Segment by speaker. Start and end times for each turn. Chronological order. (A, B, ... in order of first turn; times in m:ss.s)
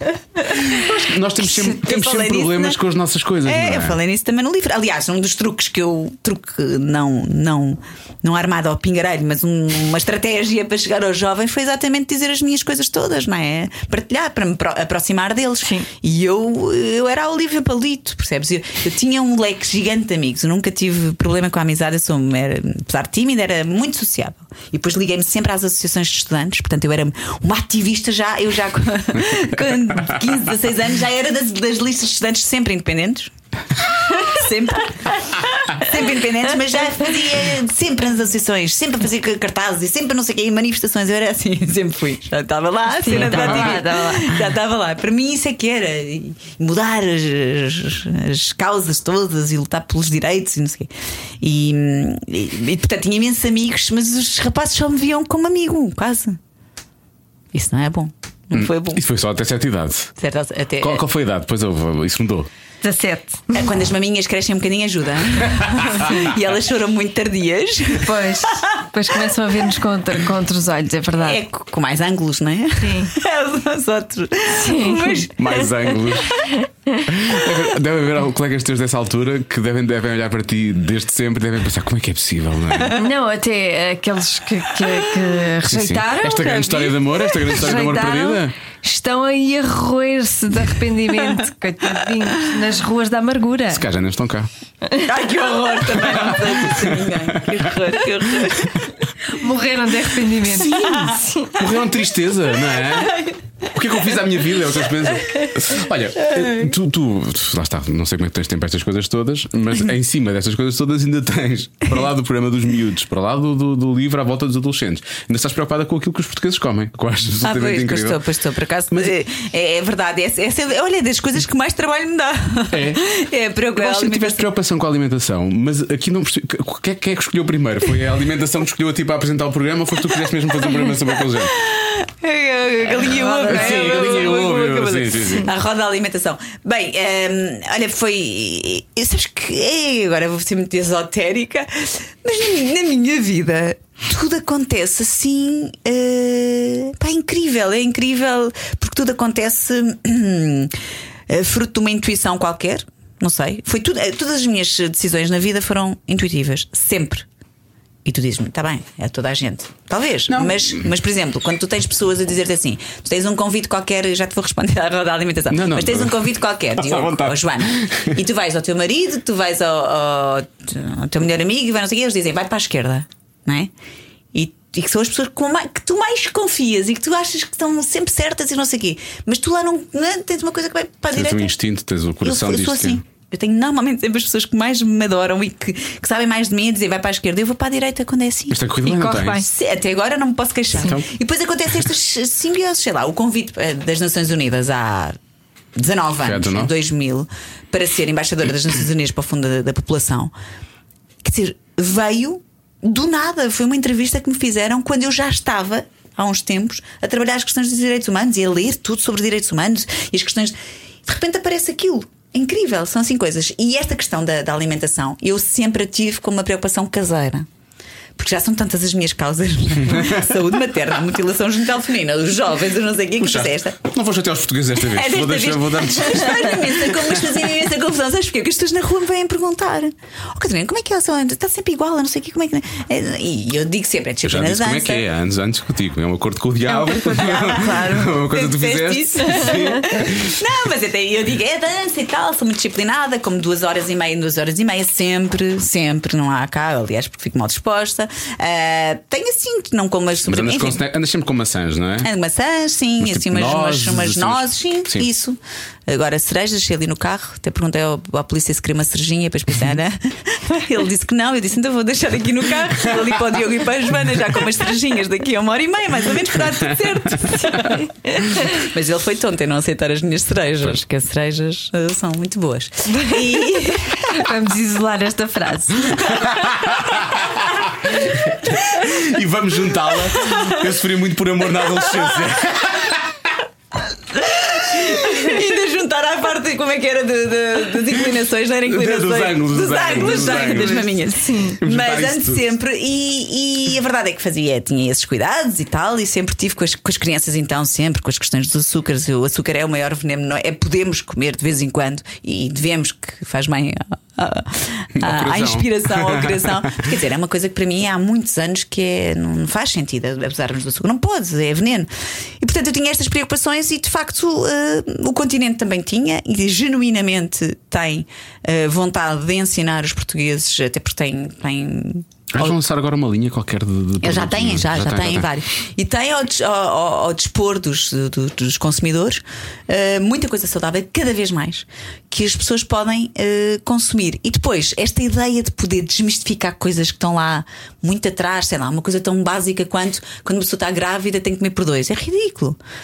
0:00.6-0:04.0 A
0:01.4-0:02.8 B
0:03.4-0:33.3 B
0:34.0-0:56.4 B
0:43.0-0:44.4 C
0:43.1-0:43.8 A
0:57.5-0:59.0 B
0:58.5-1:00.1 A
1:00.2-1:01.0 B
1:00.8-1:02.5 A
1:02.8-1:03.6 C
1:03.5-1:08.8 B
1:08.0-1:11.4 C
1:11.2-1:16.0 B
1:12.8-1:13.1 C
1:14.6-1:15.3 C
1:15.4-1:16.5 A
1:16.4-1:17.0 C
1:17.0-1:23.0 A
1:22.9-1:33.8 C
1:25.6-1:28.5 A
1:33.7-1:34.5 A
1:35.0-1:38.8 B
1:36.0-1:37.7 A
1:39.3-1:41.5 C
1:40.6-1:41.2 B
1:41.5-1:58.2 A
1:57.4-2:04.5 B
2:02.7-2:03.0 A
2:03.8-2:11.5 A
2:11.5-2:30.8 B
2:12.8-2:14.5 C
2:13.4-2:15.5 A
2:31.3-2:37.3 B
2:38.0-2:53.7 B
2:40.3-2:40.8 A
2:45.5-2:48.2 A
2:54.3-3:01.5 B
3:01.1-3:03.0 A
3:02.2-3:08.6 B
3:08.5-3:09.4 A
3:08.8-3:09.5 C
3:09.2-3:15.2 B
3:10.8-3:11.1 A
3:15.8-3:20.3 B
3:16.2-3:16.7 A
3:21.2-3:37.5 B
3:38.2-3:43.8 B
3:39.9-3:40.2 A
3:43.2-3:47.4 A
3:44.8-3:55.0 B
3:54.2-4:00.4 A
3:56.8-4:10.8 B
3:57.0-3:57.9 C
4:10.2-4:12.1 A
4:12.0-4:34.2 B
4:13.0-4:15.1 A
4:27.5-4:27.8 C
4:34.1-4:36.1 C
4:36.0-4:43.1 A
4:44.1-5:22.6 B
4:48.6-4:50.9 A
4:50.0-4:51.6 C
4:51.6-4:52.5 A
5:05.0-5:06.8 A
5:22.3-5:25.3 A
5:24.0-5:42.6 B